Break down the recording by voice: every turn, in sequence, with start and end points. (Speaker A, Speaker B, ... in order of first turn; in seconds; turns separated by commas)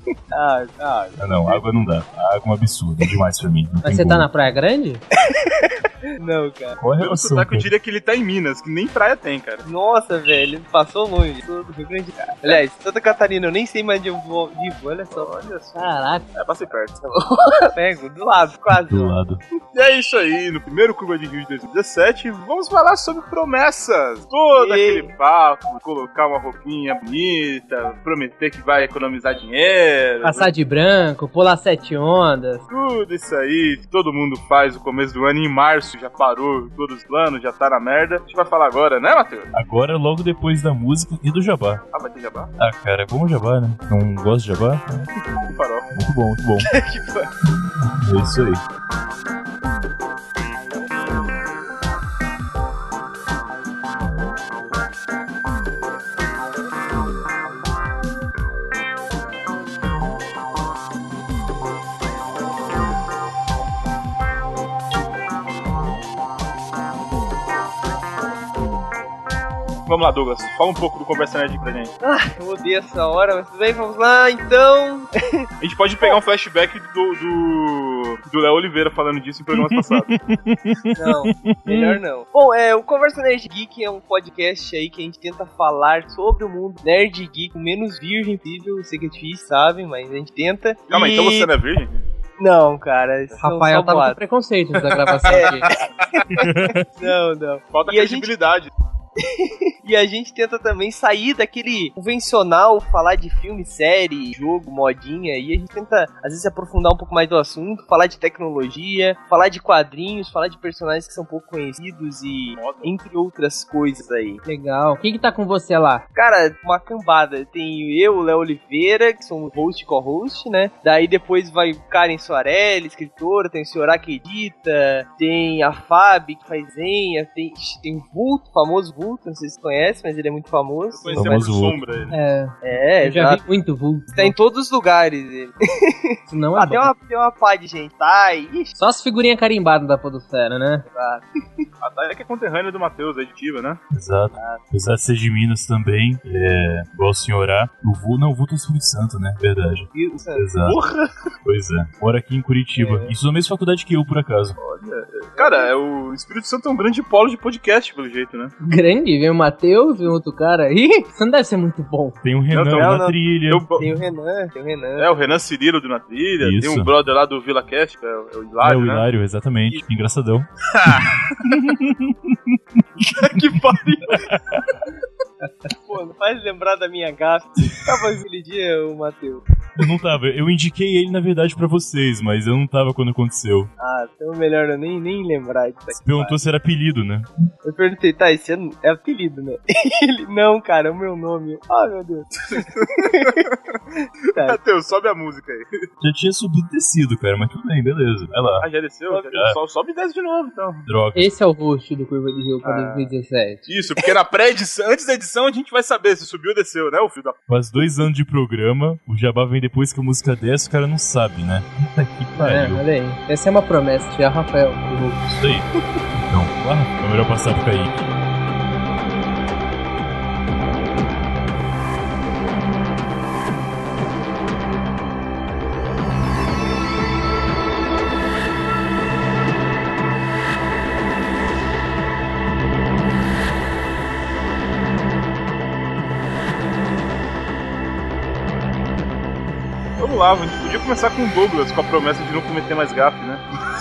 Speaker A: 0.3-1.6, Speaker B: 1.2-4.3, Speaker C: 3.8-5.0, Speaker A: 5.2-6.8, Speaker B: 6.8-7.7, Speaker D: 7.0-9.7, Speaker A: 9.7-15.3, Speaker D: 15.1-17.1, Speaker C: 15.8-16.3, Speaker A: 17.1-19.2, Speaker B: 18.7-19.4, Speaker D: 19.7-30.5, Speaker A: 24.6-25.1, Speaker C: 30.2-32.6, Speaker D: 32.7-39.5, Speaker B: 39.5-41.8, Speaker D: 41.9-42.5, Speaker B: 42.6-44.8, Speaker D: 45.4-45.9, Speaker B: 45.9-46.7, Speaker A: 46.6-47.3, Speaker B: 47.6-48.6, Speaker D: 69.9-71.9, Speaker A: 72.0-75.5, Speaker D: 75.6-80.2, Speaker B: 79.6-81.7, Speaker A: 81.0-91.5, Speaker C: 81.7-82.0, Speaker D: 90.9-92.0, Speaker A: 92.4-94.2, Speaker C: 93.4-95.7, Speaker A: 95.3-98.3, Speaker D: 95.4-95.7, Speaker B: 96.3-96.8, Speaker D: 97.7-98.7, Speaker A: 99.2-114.4, Speaker D: 112.5-113.0, Speaker C: 114.5-116.0, Speaker A: 116.2-131.3, Speaker D: 130.9-132.2, Speaker B: 131.1-131.8, Speaker C: 132.1-134.3, Speaker A: 132.6-133.5, Speaker A: 134.1-138.8, Speaker C: 136.3-136.9, Speaker C: 138.8-140.8, Speaker A: 140.9-141.7, Speaker D: 141.8-143.8, Speaker B: 143.9-150.8, Speaker A: 144.3-144.6, Speaker A: 149.9-151.0, Speaker B: 151.4-154.6, Speaker A: 152.8-153.1, Speaker D: 154.6-158.5, Speaker A: 155.4-155.7, Speaker C: 158.7-162.2, Speaker B: 162.2-163.7, Speaker D: 162.5-163.9, Speaker A: 162.6-163.2, Speaker A: 163.8-165.3, Speaker D: 165.0-169.1, Speaker B: 166.4-166.9, Speaker B: 168.6-172.6, Speaker D: 170.7-171.5, Speaker A: 173.1-174.3, Speaker B: 174.2-174.8, Speaker A: 175.8-179.4, Speaker B: 179.8-183.7, Speaker A: 183.8-186.4, Speaker B: 186.0-187.3, Speaker A: 187.6-193.4, Speaker D: 192.5-193.8, Speaker D: 194.4-195.7, Speaker B: 196.0-198.7, Speaker D: 198.6-200.8, Speaker B: 199.3-199.6, Speaker B: 200.9-201.3, Speaker C: 201.2-203.7, Speaker A: 202.6-203.1, Speaker D: 203.7-207.4, Speaker B: 207.5-212.8, Speaker C: 212.4-215.2, Speaker B: 215.3-218.1, Speaker D: 240.0-243.4